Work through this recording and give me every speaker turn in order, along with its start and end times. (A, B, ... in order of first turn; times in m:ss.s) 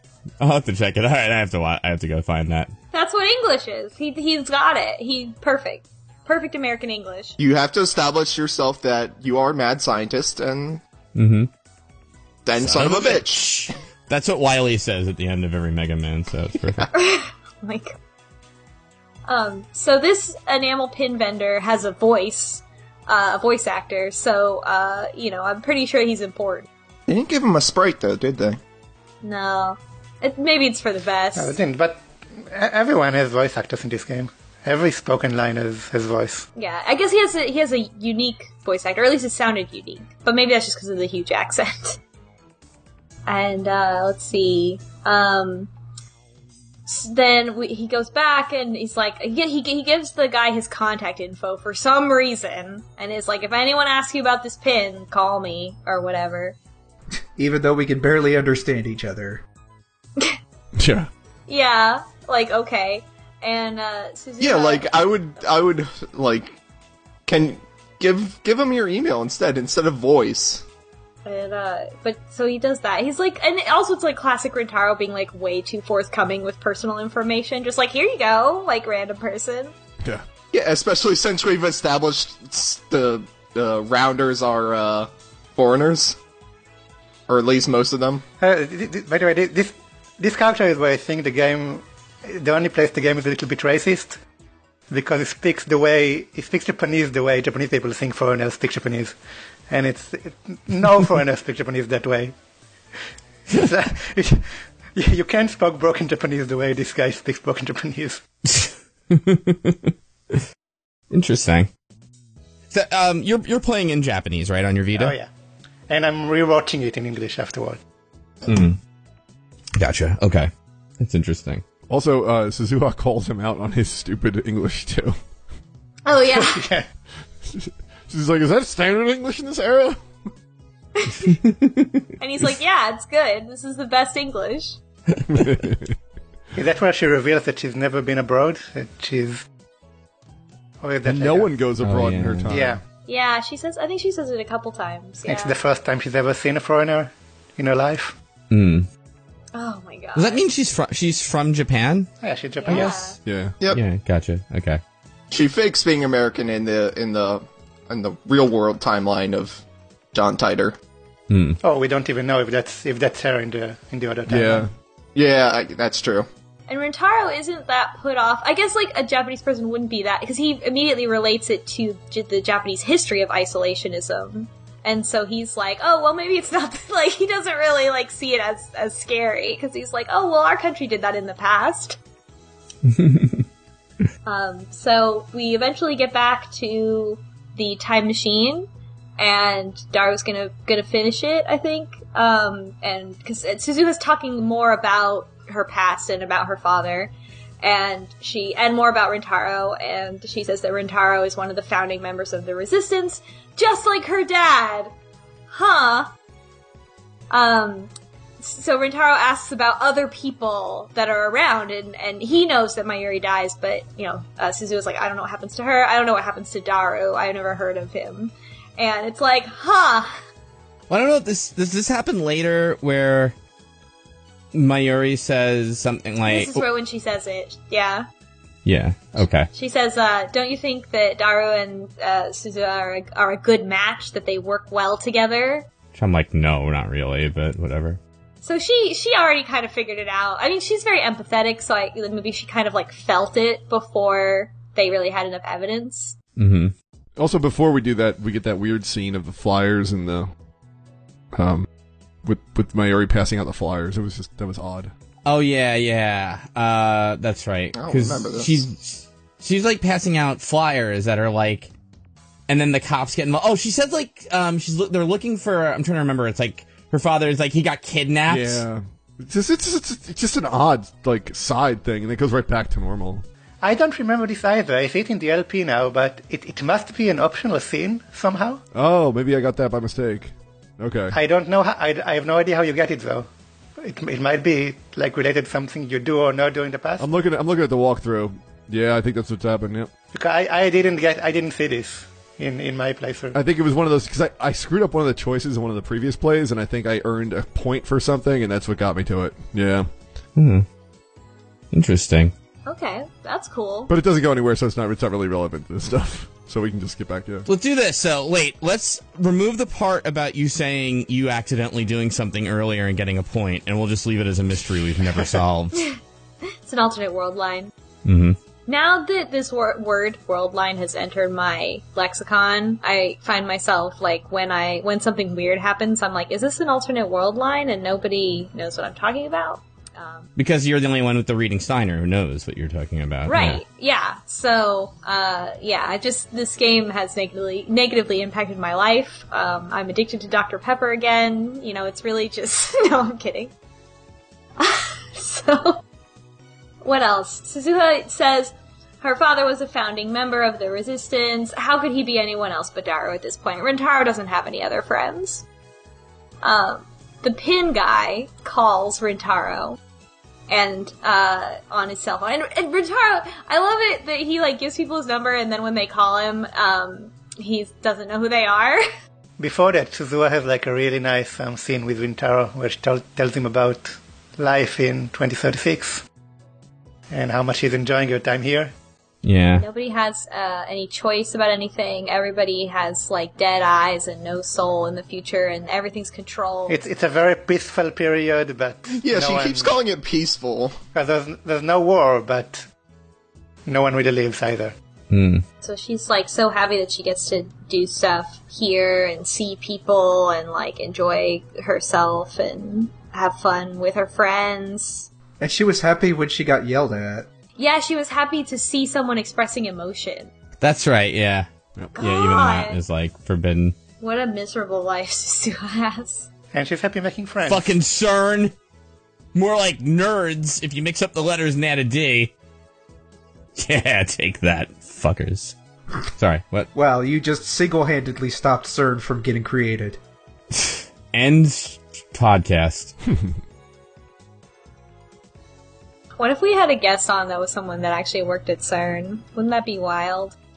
0:00.4-0:02.7 A
0:02.9-0:07.4 B
0:07.4-0:10.8 C
0:11.1-0:11.5 A
0:12.4-0:13.7 C
0:12.6-0:16.9 A
0:16.9-0:18.0 B
0:19.3-0:26.7 B
0:27.1-0:28.6 C
0:29.2-0:31.6 B
0:31.4-0:36.4 D
0:36.6-0:42.0 B
0:43.3-0:45.7 B
0:46.8-0:56.6 B
0:57.4-0:59.4 E
1:00.8-1:01.1 F
1:01.5-1:04.9 B
1:04.4-1:06.5 C
1:07.2-1:10.6 C
1:11.2-1:19.7 B
1:20.5-1:26.2 C
1:27.3-1:28.2 C
1:28.4-1:34.2 D
1:34.9-1:39.1 D
1:39.7-1:42.3 D
1:43.5-1:48.2 D
1:48.5-1:50.4 A
1:51.1-1:51.7 A
1:52.7-1:55.1 A
1:54.9-1:55.3 D
1:55.9-1:57.8 D
1:58.4-1:58.8 A
1:59.8-2:01.6 A
2:01.9-2:05.2 F
2:06.0-2:06.6 B
2:06.3-2:06.8 D
2:07.4-2:10.0 F
2:11.0-2:11.3 B
2:11.3-2:12.0 A
2:12.2-2:14.8 B
2:15.3-2:16.0 F
2:16.5-2:19.4 D
2:20.8-2:21.5 D
2:21.0-2:22.8 F
2:21.8-2:22.5 A
2:22.5-2:22.8 D
2:23.1-2:25.6 B
2:25.2-2:28.1 D
2:28.5-2:28.9 A
2:29.5-2:30.4 B
2:30.2-2:32.1 A
2:32.2-2:33.2 D
2:32.6-2:33.2 B
2:33.2-2:33.6 F
2:33.7-2:34.8 A
2:35.3-2:40.8 C
2:41.3-2:41.6 A
2:41.6-2:44.7 D
2:44.3-2:44.7 F
2:45.1-2:46.2 C
2:46.7-3:02.0 B
3:02.8-3:03.4 A
3:04.2-3:17.1 B
3:17.6-3:24.9 B
3:25.5-3:26.1 B
3:27.3-3:40.2 B
3:40.9-3:43.3 A
3:44.5-3:46.6 A
3:46.2-3:48.1 B
3:48.6-3:49.5 A
3:49.5-3:55.7 B
3:55.9-3:58.0 A
3:58.4-4:06.1 B
4:06.4-4:06.7 A
4:07.2-4:10.3 F
4:11.3-4:11.7 F
4:12.2-4:14.9 F
4:15.2-4:21.7 A
4:17.7-4:18.6 C
4:22.5-4:28.6 A
4:28.3-4:33.2 F
4:33.6-4:38.6 D
4:38.7-4:41.2 F
4:41.1-4:43.3 D
4:43.8-4:47.1 D
4:47.0-4:49.9 F
4:50.1-4:53.4 D
4:53.3-4:59.9 F
5:00.4-5:00.6 A
5:01.7-5:02.3 A
5:02.6-5:03.9 B
5:03.9-5:07.4 F
5:07.5-5:15.8 A
5:16.6-5:17.7 B
5:18.0-5:18.4 A
5:18.7-5:30.3 B
5:30.4-5:33.6 A
5:33.3-5:43.5 B
5:44.6-5:45.8 B
5:46.8-5:55.4 B
5:56.4-5:59.8 B
6:00.5-6:08.8 B
6:09.4-6:16.0 D
6:17.1-6:18.7 D
6:19.2-6:19.6 A
6:19.6-6:26.8 B
6:26.7-6:29.7 D
6:29.0-6:30.8 C
6:30.9-6:32.6 D
6:33.7-6:34.7 D
6:35.1-6:35.4 A
6:35.6-6:45.1 B
6:45.4-6:47.3 E
6:47.6-6:50.3 B
6:50.6-6:53.7 A
6:52.0-6:52.8 B
6:54.0-6:56.3 B
6:56.5-6:57.7 D
6:57.4-6:58.5 A
6:59.3-7:02.3 A
7:03.6-7:05.5 A
7:06.1-7:06.7 A
7:06.7-7:10.0 E
7:10.5-7:12.9 A
7:16.2-7:20.4 B